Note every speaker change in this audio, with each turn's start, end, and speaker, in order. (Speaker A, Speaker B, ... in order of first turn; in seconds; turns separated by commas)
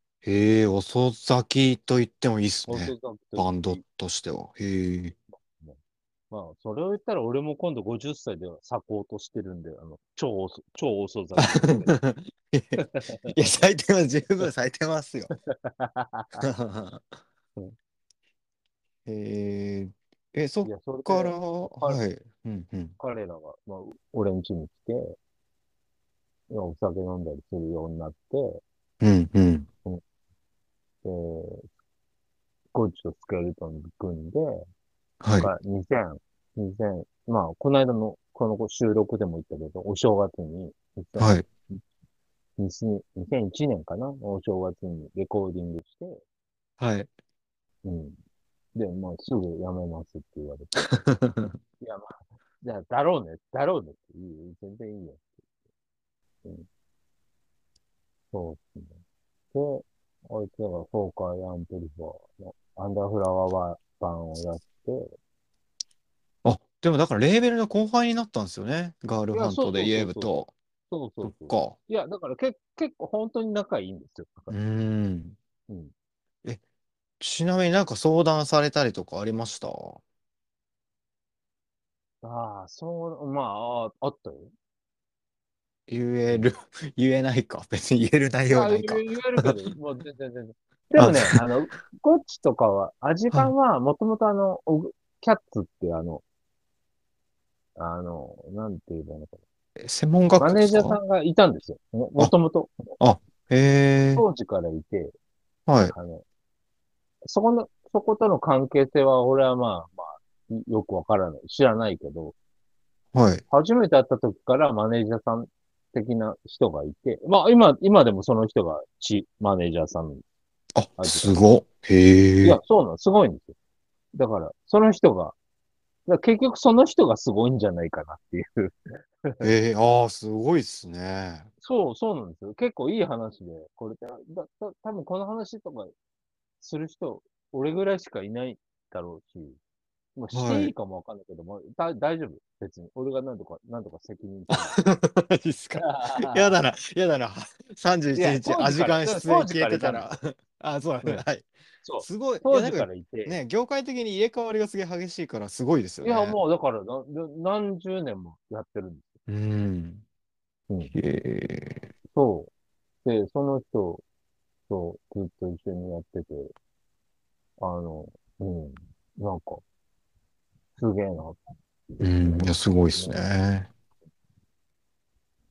Speaker A: 0.2-5.2, Speaker B: 2.7-3.8, Speaker B: 5.4-5.8, Speaker B: 6.3-11.9, Speaker A: 11.4-12.8, Speaker B: 12.8-13.4, Speaker A: 13.3-15.3, Speaker B: 15.5-16.4, Speaker A: 16.4-17.1, Speaker A: 19.1-23.0, Speaker B: 20.6-22.0, Speaker B: 23.0-25.1, Speaker B: 26.5-28.6, Speaker A: 29.0-29.7, Speaker B: 31.0-31.7, Speaker B: 32.7-34.6, Speaker A: 35.2-35.5, Speaker B: 35.4-41.8, Speaker A: 41.2-41.5, Speaker B: 42.6-46.2, Speaker A: 46.8-47.1, Speaker B: 47.9-48.2, Speaker B: 48.8-50.9, Speaker A: 51.0-51.6, Speaker B: 51.8-55.4, Speaker B: 58.3-59.0, Speaker B: 59.5-65.1, Speaker A: 66.4-70.5, Speaker B: 69.3-70.3, Speaker B: 70.9-74.5, Speaker A: 71.2-71.8, Speaker A: 74.5-75.4, Speaker A: 77.2-80.0, Speaker B: 82.2-84.5, Speaker A: 85.9-89.5, Speaker B: 88.5-96.2, Speaker A: 91.0-91.4, Speaker B: 97.8-99.4, Speaker A: 99.8-101.0, Speaker B: 100.4-103.0, Speaker A: 103.0-104.2, Speaker B: 104.2-105.1, Speaker A: 105.7-105.9, Speaker B: 105.8-106.2, Speaker B: 107.2-112.3, Speaker A: 113.1-113.4, Speaker B: 113.5-120.2, Speaker A: 120.8-122.6, Speaker B: 121.0-121.4, Speaker B: 122.4-123.5, Speaker B: 124.1-125.3, Speaker B: 126.1-129.5, Speaker A: 129.4-131.5, Speaker B: 131.6-135.9, Speaker B: 136.6-139.6, Speaker B: 140.2-144.8, Speaker A: 140.3-140.7, Speaker A: 144.5-151.5, Speaker B: 145.8-146.6, Speaker B: 148.2-150.1, Speaker B: 151.8-153.4, Speaker A: 152.0-156.4, Speaker B: 156.0-159.2, Speaker A: 159.3-160.0, Speaker A: 160.9-161.9, Speaker B: 162.1-162.5, Speaker B: 163.0-164.0, Speaker B: 164.7-166.5, Speaker B: 167.6-169.6, Speaker B: 170.8-173.2, Speaker A: 172.0-173.7